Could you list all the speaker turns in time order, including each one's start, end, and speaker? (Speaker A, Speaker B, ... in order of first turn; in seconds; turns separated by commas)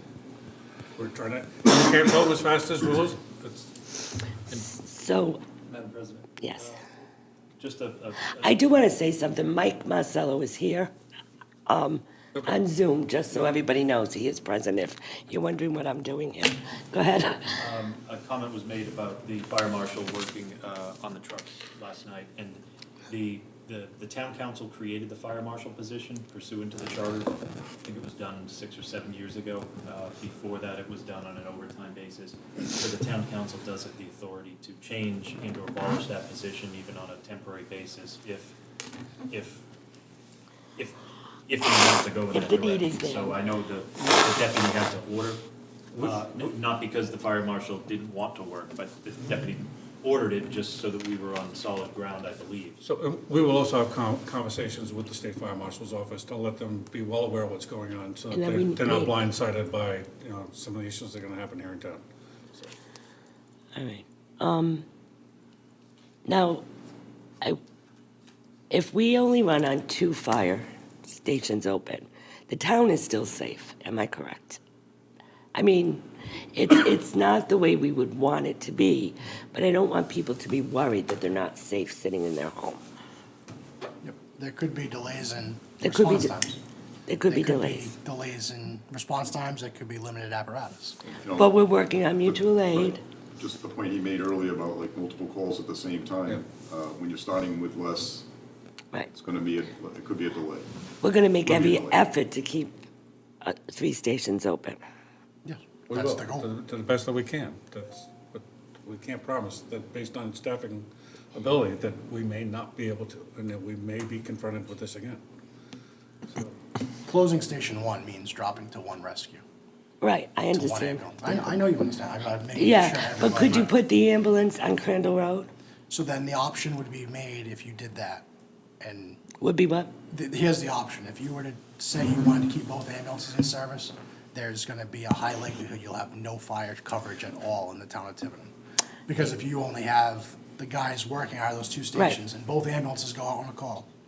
Speaker A: 1.0-4.0, Speaker B: 4.7-5.4, Speaker C: 5.7-6.9, Speaker B: 6.4-6.7, Speaker C: 7.6-8.6, Speaker B: 8.4-10.9, Speaker B: 11.7-17.6, Speaker C: 17.6-38.5, Speaker C: 39.3-39.6, Speaker C: 40.8-45.4, Speaker B: 42.3-43.4, Speaker A: 45.9-46.5, Speaker C: 46.0-52.8, Speaker A: 52.8-62.7, Speaker B: 58.3-59.1, Speaker B: 63.8-64.8, Speaker B: 66.3-66.6, Speaker B: 68.7-74.6, Speaker B: 75.5-82.8, Speaker D: 84.0-86.6, Speaker B: 85.8-86.3, Speaker B: 87.1-87.9, Speaker D: 87.3-91.0, Speaker E: 91.2-91.6, Speaker B: 91.4-93.0, Speaker E: 92.2-98.3, Speaker E: 99.1-100.7, Speaker B: 101.0-102.7, Speaker E: 101.4-102.0, Speaker B: 103.4-104.8, Speaker D: 105.5-106.5, Speaker A: 105.9-115.2, Speaker D: 117.0-119.4, Speaker B: 120.0-121.4, Speaker D: 120.5-123.7, Speaker B: 122.5-125.5, Speaker D: 125.9-128.3, Speaker D: 128.8-129.2, Speaker B: 129.4-129.9, Speaker D: 130.1-138.5, Speaker D: 139.1-143.9